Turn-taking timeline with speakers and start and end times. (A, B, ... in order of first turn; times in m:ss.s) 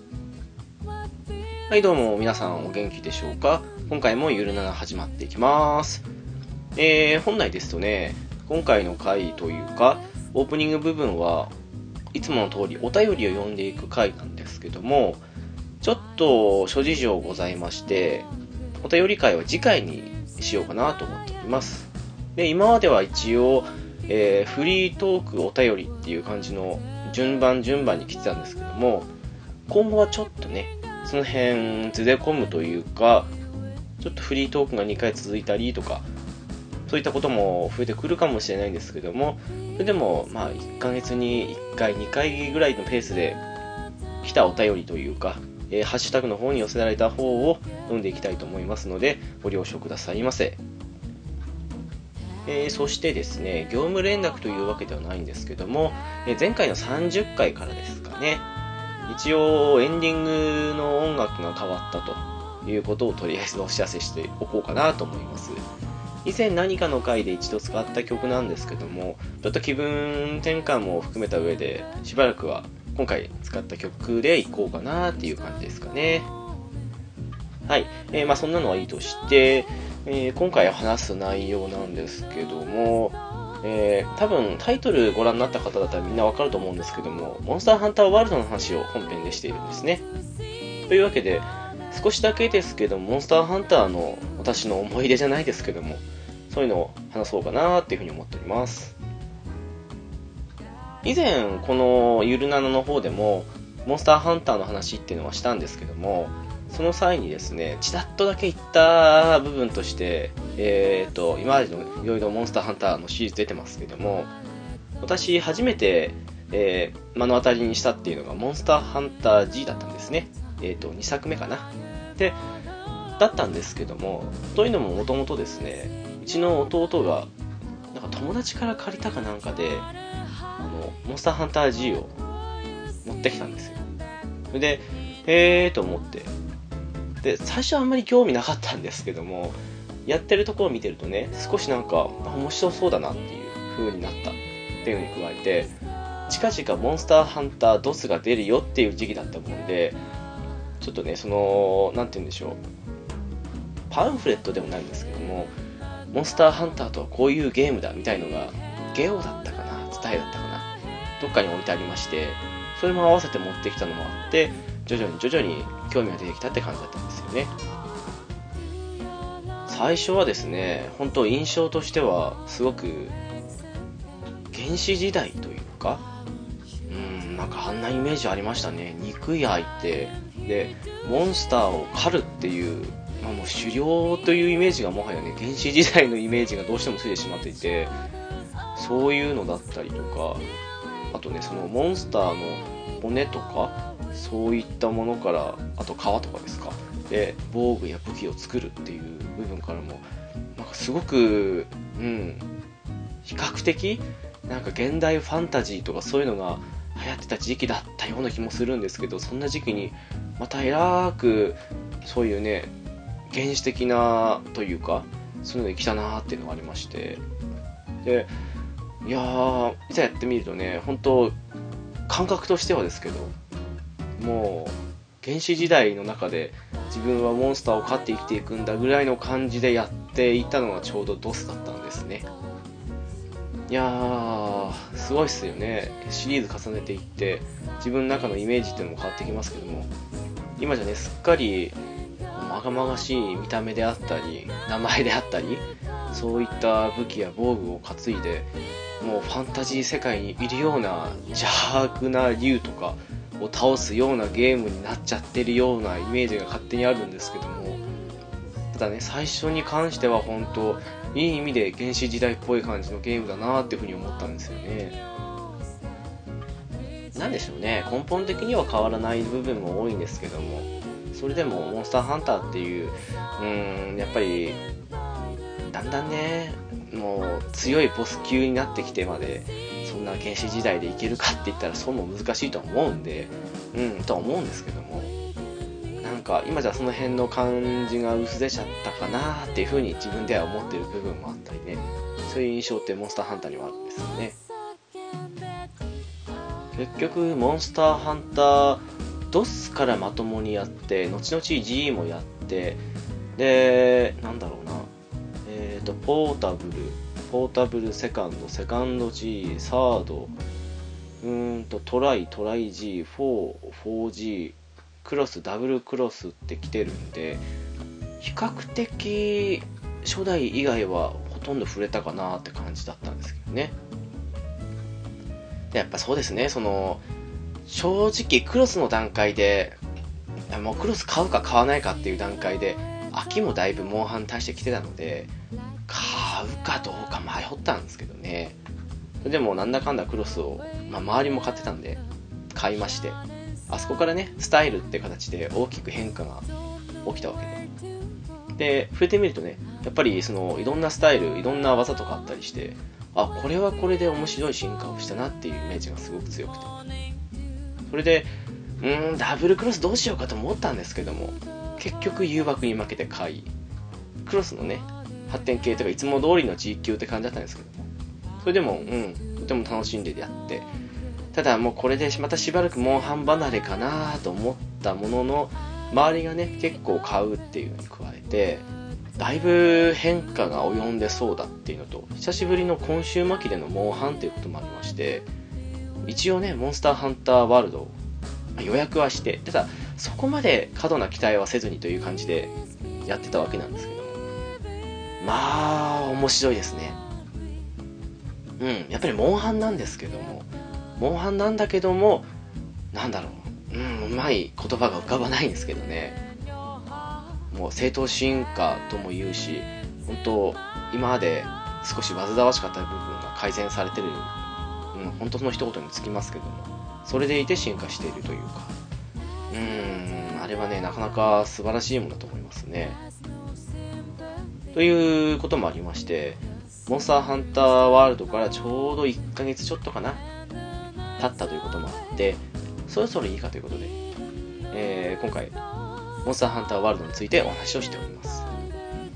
0:01.7-0:06.0 A
0:06.8-0:11.5 A
0:12.1-0:15.2 A
0:15.8-0:18.3 A
0:18.8-0:29.1 A
0:29.7-0:33.3 A
0:34.0-0:36.0 A
0:36.9-0:43.4 A
0:44.2-0:50.6 A
0:52.5-0:58.4 A
0:59.1-1:05.6 A
1:06.2-1:16.3 A
1:17.7-1:30.0 A
1:30.9-1:39.0 A
1:41.0-1:54.3 A
1:55.0-2:02.4 A
2:03.2-2:07.3 A
2:07.9-2:09.9 A
2:10.6-2:12.1 A
2:13.0-2:13.8 A
2:14.5-2:16.3 A
2:17.2-2:25.7 A
2:26.3-2:30.0 A
2:30.8-2:32.6 A
2:33.9-2:35.5 A
2:36.1-2:40.7 A
2:41.2-2:47.5 A
2:49.7-2:53.2 A
2:54.5-2:56.1 A
2:56.9-3:08.0 A
3:08.8-3:10.4 A
3:11.1-3:20.0 A
3:20.6-3:22.4 A
3:23.2-3:32.7 A
3:33.3-3:37.2 A
3:38.0-3:38.3 A
3:39.0-3:41.4 A
3:42.1-3:43.3 A
3:44.2-3:52.3 A
3:53.7-3:59.9 A
4:00.6-4:01.8 A
4:02.3-4:08.5 A
4:09.0-4:17.8 A
4:18.7-4:25.0 A
4:27.1-4:34.6 A
4:35.7-4:45.1 A
4:46.0-4:54.4 A
4:56.8-5:02.8 A
5:03.4-5:04.9 A
5:05.4-5:10.3 A
5:11.2-5:17.4 A
5:18.2-5:23.8 A
5:25.7-5:27.0 A
5:27.7-5:29.8 A
5:30.5-5:35.3 A
5:35.9-5:38.6 A
5:39.2-5:42.0 A
5:42.5-5:43.2 A
5:43.7-5:46.5 A
5:47.0-5:47.6 A
5:48.6-5:56.7 A
5:57.9-6:03.5 A
6:04.2-6:07.9 A
6:08.4-6:10.7 A
6:11.3-6:18.6 A
6:19.2-6:25.3 A
6:26.0-6:27.9 A
6:28.6-6:32.5 A
6:33.0-6:34.2 A
6:35.2-6:37.0 A
6:38.6-6:42.3 A
6:42.9-6:46.2 A
6:47.5-6:54.3 A
6:54.9-6:58.7 A
6:59.5-7:03.0 A
7:04.7-7:10.2 A
7:11.2-7:13.9 A
7:14.7-7:15.5 A
7:16.2-7:18.5 A